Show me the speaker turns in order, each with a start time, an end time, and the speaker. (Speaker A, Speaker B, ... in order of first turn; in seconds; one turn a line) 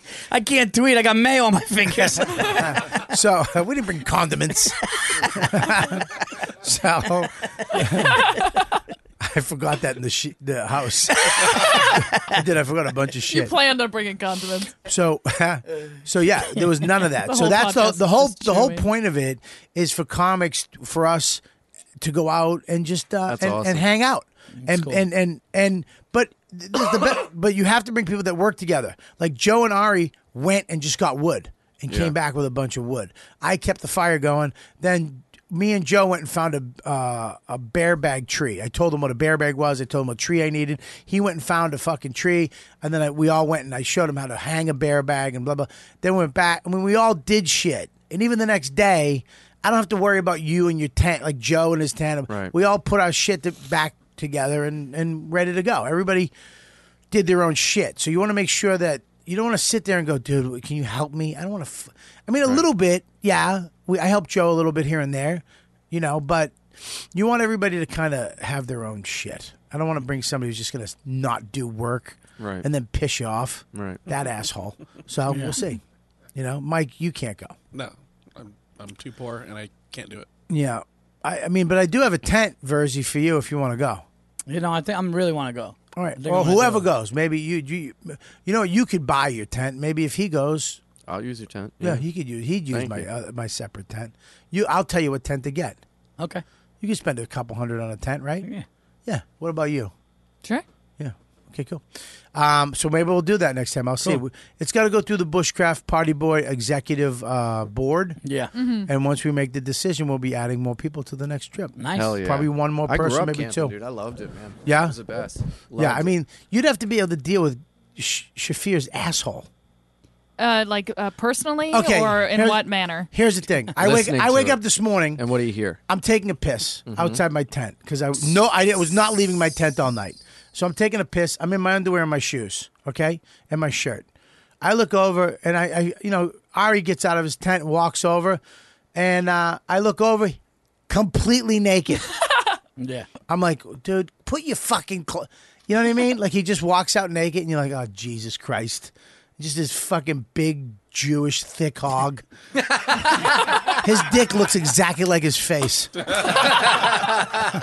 Speaker A: 0.3-2.8
Speaker B: 2.0-6.1
Speaker B: 6.6-8.3
Speaker C: 8.2-8.6
Speaker B: 9.2-13.6
Speaker A: 11.4-12.2
Speaker C: 13.3-14.7
Speaker B: 14.8-21.4
Speaker C: 17.1-18.9
Speaker B: 22.0-56.3
Speaker D: 23.3-23.9
Speaker A: 24.6-25.0
Speaker D: 31.9-32.1
Speaker D: 52.3-52.5
Speaker B: 57.1-75.8
Speaker D: 72.4-72.7
Speaker D: 73.7-74.0
Speaker A: 75.3-75.6
Speaker B: 76.3-77.5
Speaker E: 77.7-80.3
Speaker B: 80.5-84.0
Speaker A: 84.5-86.9
Speaker B: 85.9-90.8
Speaker D: 91.1-92.0
Speaker B: 91.8-95.8
Speaker D: 92.7-93.1
Speaker B: 96.8-98.5
Speaker B: 99.0-99.9
Speaker B: 101.0-101.8
Speaker B: 102.3-108.2
Speaker A: 108.2-108.5
Speaker C: 108.5-108.9
Speaker B: 108.8-113.7
Speaker A: 111.8-112.2
Speaker D: 111.9-116.1
Speaker B: 114.7-115.0
Speaker B: 115.8-119.5
Speaker C: 120.4-123.1
Speaker B: 121.7-125.2
Speaker D: 123.8-124.6
Speaker D: 125.2-125.8
Speaker B: 125.9-134.1
Speaker D: 126.9-127.2
Speaker B: 134.6-138.4
Speaker B: 138.9-142.1
Speaker A: 142.8-143.1
Speaker B: 143.3-152.2
Speaker B: 153.7-156.2